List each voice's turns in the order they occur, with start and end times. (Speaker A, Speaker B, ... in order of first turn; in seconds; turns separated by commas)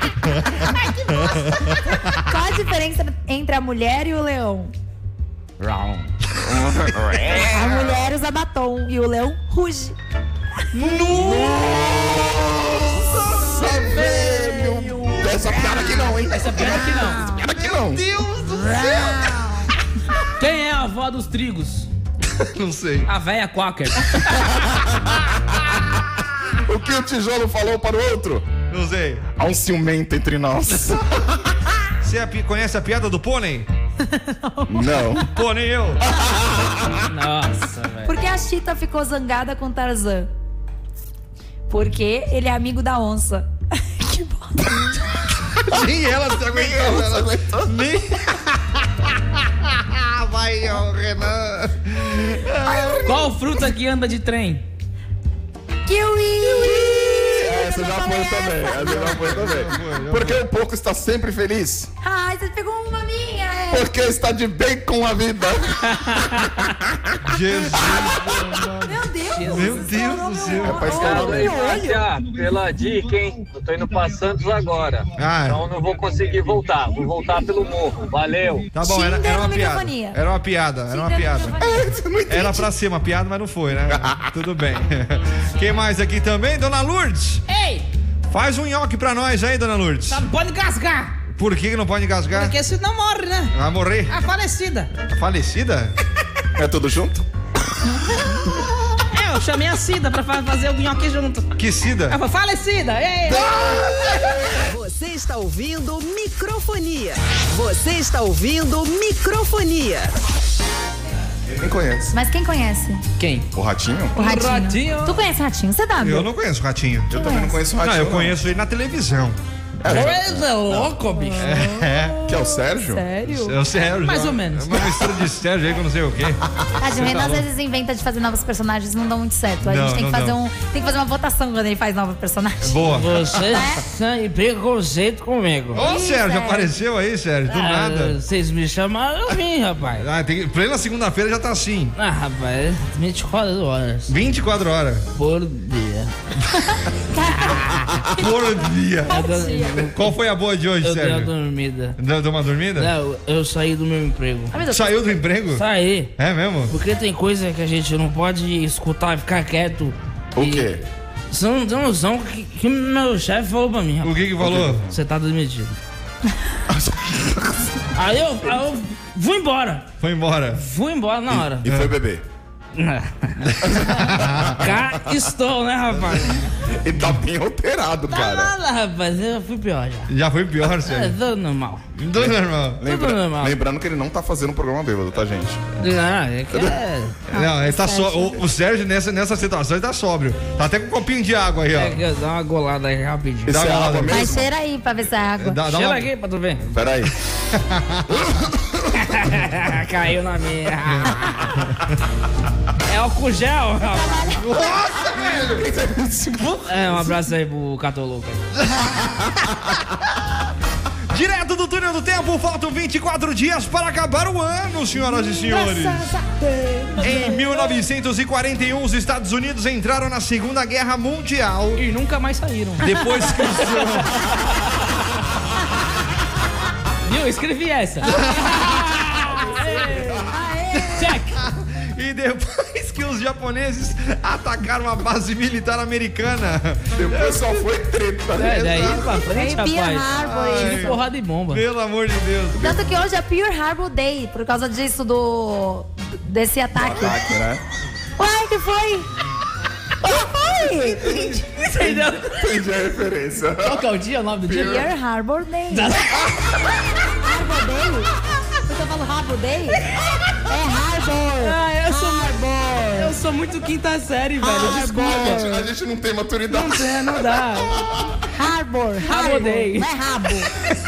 Speaker A: 0.3-0.6, Speaker B: 0.8-1.3, Speaker A: 1.1-2.2, Speaker C: 2.2-4.7, Speaker B: 5.6-6.1, Speaker D: 6.4-7.5, Speaker C: 7.5-9.9, Speaker A: 10.7-11.8, Speaker D: 11.1-18.0, Speaker B: 14.0-15.3, Speaker B: 16.2-17.2, Speaker C: 16.6-17.4, Speaker A: 17.5-19.4, Speaker C: 18.5-19.7, Speaker B: 20.4-21.9, Speaker A: 22.4-23.1, Speaker B: 23.1-24.5, Speaker D: 24.5-25.7, Speaker D: 26.6-28.5, Speaker A: 28.7-29.3, Speaker D: 29.4-31.5, Speaker A: 32.0-33.7, Speaker C: 34.1-34.9, Speaker D: 34.7-35.3, Speaker A: 35.2-36.0, Speaker D: 36.0-37.1, Speaker B: 37.0-38.1, Speaker C: 38.0-40.3, Speaker C: 41.7-45.0, Speaker A: 45.6-48.8, Speaker D: 46.4-47.7, Speaker A: 49.6-53.1, Speaker B: 53.0-54.6, Speaker C: 55.9-59.1, Speaker D: 56.4-61.9, Speaker A: 58.7-60.4, Speaker C: 62.0-63.9, Speaker D: 63.7-68.4, Speaker B: 65.9-66.7, Speaker A: 67.2-71.3, Speaker C: 68.9-72.0, Speaker B: 69.3-69.9, Speaker D: 70.6-71.8, Speaker E: 70.9-78.7, Speaker A: 75.2-75.6, Speaker A: 78.7-81.6, Speaker C: 78.8-80.2, Speaker C: 80.9-81.9, Speaker D: 81.6-82.7, Speaker A: 82.3-87.4, Speaker D: 83.9-84.3, Speaker B: 87.5-87.9, Speaker A: 88.3-90.2, Speaker B: 90.1-91.2, Speaker A: 91.3-92.5, Speaker B: 92.3-93.5, Speaker A: 93.5-94.1, Speaker B: 94.1-94.9, Speaker A: 95.0-95.9, Speaker D: 96.5-97.2, Speaker B: 99.1-101.5, Speaker A: 101.6-102.2, Speaker B: 102.1-103.5, Speaker D: 103.3-104.5, Speaker F: 104.7-110.1, Speaker D: 111.5-112.1, Speaker C: 112.1-113.0, Speaker B: 113.2-113.5, Speaker D: 113.5-114.1, Speaker C: 114.1-116.3, Speaker B: 114.2-115.2, Speaker A: 116.0-117.2, Speaker D: 117.1-118.4, Speaker C: 117.1-117.5, Speaker A: 117.8-120.1, Speaker D: 119.8-120.9, Speaker B: 119.9-121.7, Speaker C: 121.1-123.6, Speaker A: 121.4-122.2, Speaker D: 122.2-123.0, Speaker A: 123.3-127.4, Speaker B: 124.0-124.9, Speaker C: 126.8-133.8, Speaker A: 129.6-130.4, Speaker A: 132.6-133.3, Speaker B: 132.9-135.8, Speaker A: 135.7-138.1, Speaker C: 135.8-136.7, Speaker B: 137.5-140.1, Speaker A: 140.0-141.9, Speaker B: 142.0-144.1, Speaker A: 144.1-145.0, Speaker B: 145.2-146.1, Speaker C: 147.1-147.6, Speaker B: 147.4-147.9, Speaker A: 148.1-149.2, Speaker C: 149.1-149.9, Speaker B: 149.1-150.1, Speaker A: 149.9-151.3, Speaker B: 150.8-152.0, Speaker A: 152.0-152.9, Speaker B: 152.8-154.6, Speaker C: 154.5-155.1, Speaker A: 154.7-155.6, Speaker B: 155.5-156.1, Speaker A: 156.2-156.7, Speaker B: 156.7-160.7, Speaker D: 160.4-160.8, Speaker B: 161.3-164.2, Speaker A: 164.0-164.9, Speaker D: 164.4-164.9, Speaker B: 164.9-165.8, Speaker D: 166.7-167.9, Speaker B: 167.9-169.9, Speaker A: 170.0-170.6, Speaker B: 170.6-171.7, Speaker D: 171.3-172.2, Speaker A: 171.7-171.9, Speaker B: 172.7-176.4, Speaker A: 173.5-174.7, Speaker D: 173.6-175.2, Speaker D: 176.7-178.5, Speaker B: 178.1-180.1, Speaker A: 180.1-181.1, Speaker B: 180.6-181.8, Speaker A: 182.0-182.8, Speaker D: 182.1-185.6, Speaker B: 182.8-183.6, Speaker B: 185.8-187.2, Speaker D: 186.5-186.8, Speaker A: 187.3-192.0, Speaker C: 187.3-188.4, Speaker B: 191.7-193.6, Speaker D: 193.4-194.5, Speaker A: 193.5-194.2, Speaker C: 194.1-195.6, Speaker A: 195.4-196.1, Speaker B: 195.7-196.6, Speaker D: 196.7-197.1, Speaker A: 197.5-198.1, Speaker D: 198.1-199.0, Speaker B: 198.9-201.6, Speaker A: 200.9-201.9, Speaker B: 202.9-204.3, Speaker C: 203.9-204.4, Speaker A: 204.4-205.6, Speaker D: 204.9-207.1, Speaker B: 206.7-208.4, Speaker D: 209.2-209.8, Speaker A: 211.1-216.1, Speaker C: 215.5-216.1, Speaker B: 215.6-217.6, Speaker A: 217.0-221.8, Speaker B: 221.8-224.1, Speaker A: 222.8-224.3, Speaker B: 227.1-230.2, Speaker A: 228.1-229.0, Speaker D: 229.8-230.3, Speaker C: 230.3-231.1, Speaker A: 230.8-237.6, Speaker B: 230.9-231.4, Speaker D: 236.9-239.2, Speaker B: 238.4-241.6, Speaker C: 239.3-241.0, Speaker A: 240.1-241.0, Speaker A: 241.5-242.6, Speaker C: 242.6-247.2, Speaker D: 246.7-247.6, Speaker C: 248.2-249.1, Speaker C: 250.0-251.4, Speaker B: 251.5-252.5, Speaker D: 251.8-253.9, Speaker B: 253.6-254.8, Speaker D: 254.5-254.8, Speaker C: 254.5-255.9, Speaker B: 255.7-256.6, Speaker C: 257.2-258.1, Speaker C: 258.6-259.8, Speaker C: 260.5-263.1, Speaker B: 261.4-265.4, Speaker C: 264.4-265.6, Speaker D: 264.4-268.1, Speaker B: 266.5-267.8, Speaker C: 268.4-270.5, Speaker B: 269.1-269.9